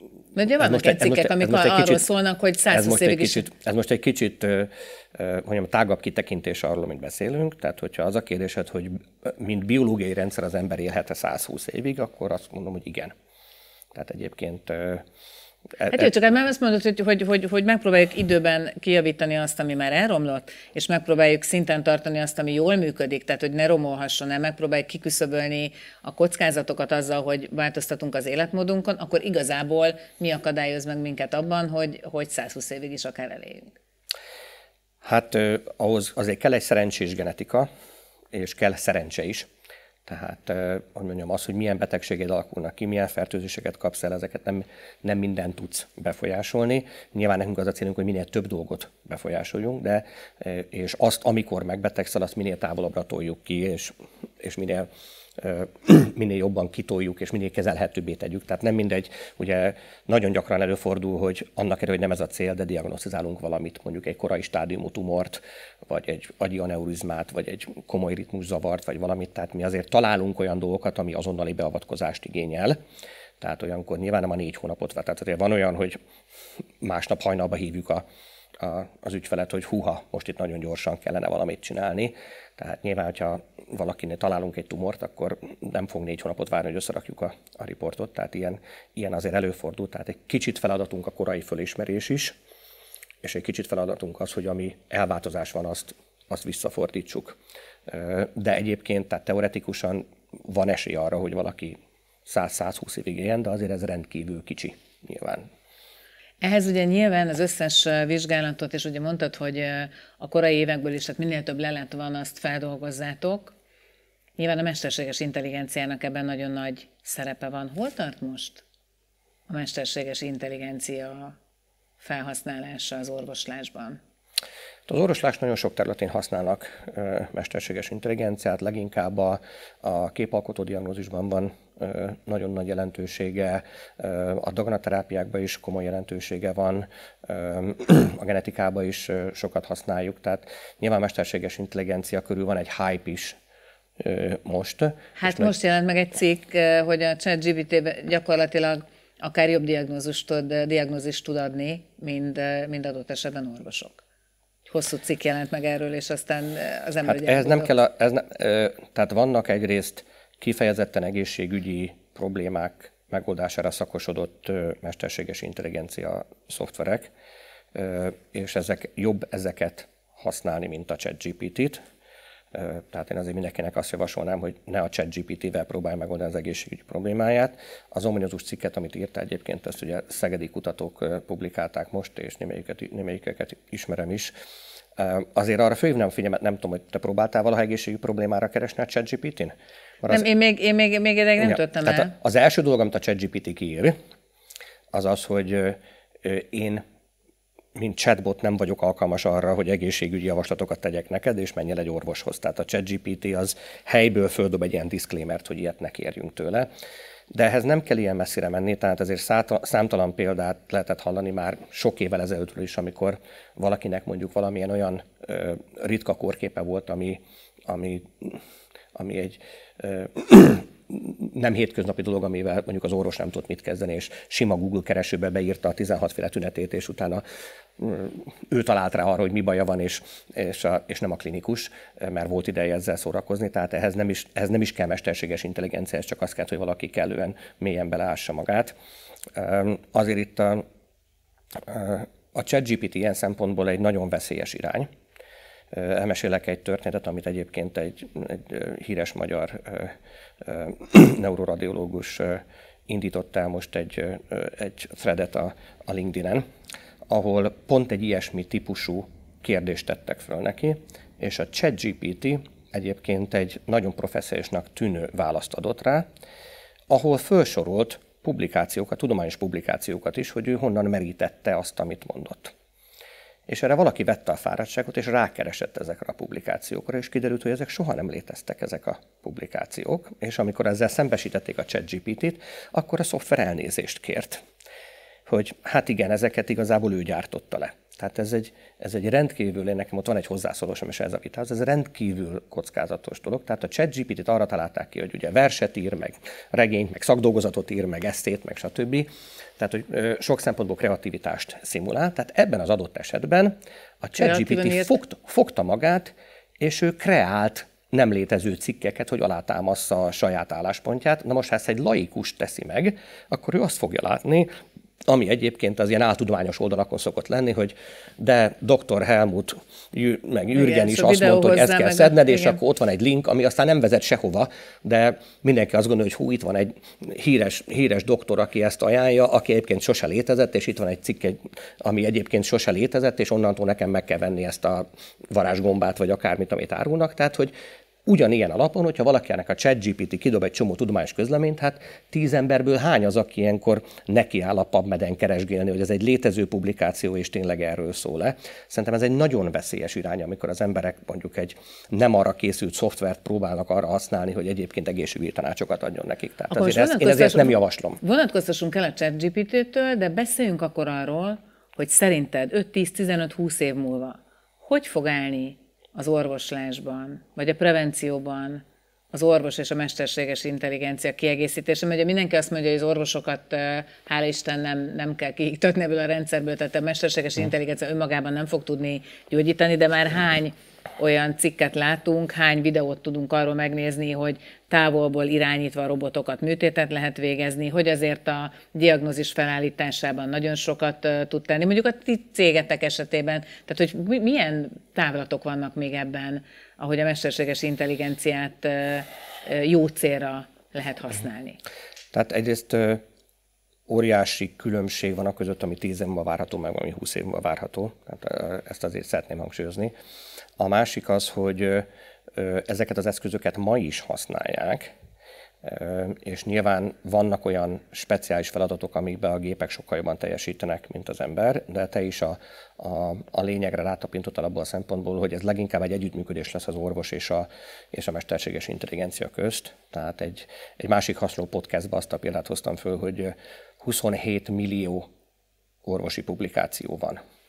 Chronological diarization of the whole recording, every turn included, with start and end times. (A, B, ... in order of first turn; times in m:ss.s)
0:00.3-0:03.5 A
0:00.6-0:02.0 B
0:02.7-0:13.1 B
0:13.9-0:15.0 B
0:15.8-0:16.1 B
0:15.8-0:33.7 A
0:35.0-0:37.7 B
0:38.3-0:39.5 B
0:40.0-1:12.8 B
1:13.4-1:16.0 B
1:16.8-1:18.0 B
1:18.6-1:32.3 B
1:33.2-1:45.5 B
1:46.4-1:53.5 A
1:54.4-1:58.6 A
1:59.5-2:01.4 A
2:02.0-2:04.0 A
2:04.9-2:23.4 B
2:24.0-2:25.5 B
2:25.2-2:34.0 A
2:34.7-2:37.7 A
2:37.0-2:47.1 B
2:47.7-2:51.8 B
2:52.5-3:04.3 B
3:05.0-3:10.2 B
3:10.1-3:12.1 A
3:11.4-3:14.0 B
3:14.9-3:16.8 B
3:17.7-3:26.7 B
3:27.3-3:38.4 B
3:38.9-3:47.2 B
3:47.8-3:58.7 B
3:59.3-4:00.6 B
4:01.5-4:04.9 B
4:05.7-4:16.4 B
4:17.1-4:26.0 B
4:26.9-4:32.5 B
4:33.5-4:44.4 B
4:45.2-5:14.5 B
5:04.2-5:05.0 A
5:15.1-5:37.5 B
5:20.5-5:22.6 A
5:38.0-5:58.0 B
5:56.5-6:41.6 A
6:42.1-6:43.0 B
6:43.9-6:49.9 B
6:50.6-6:54.9 B
6:55.6-7:15.1 B
7:15.8-7:17.2 B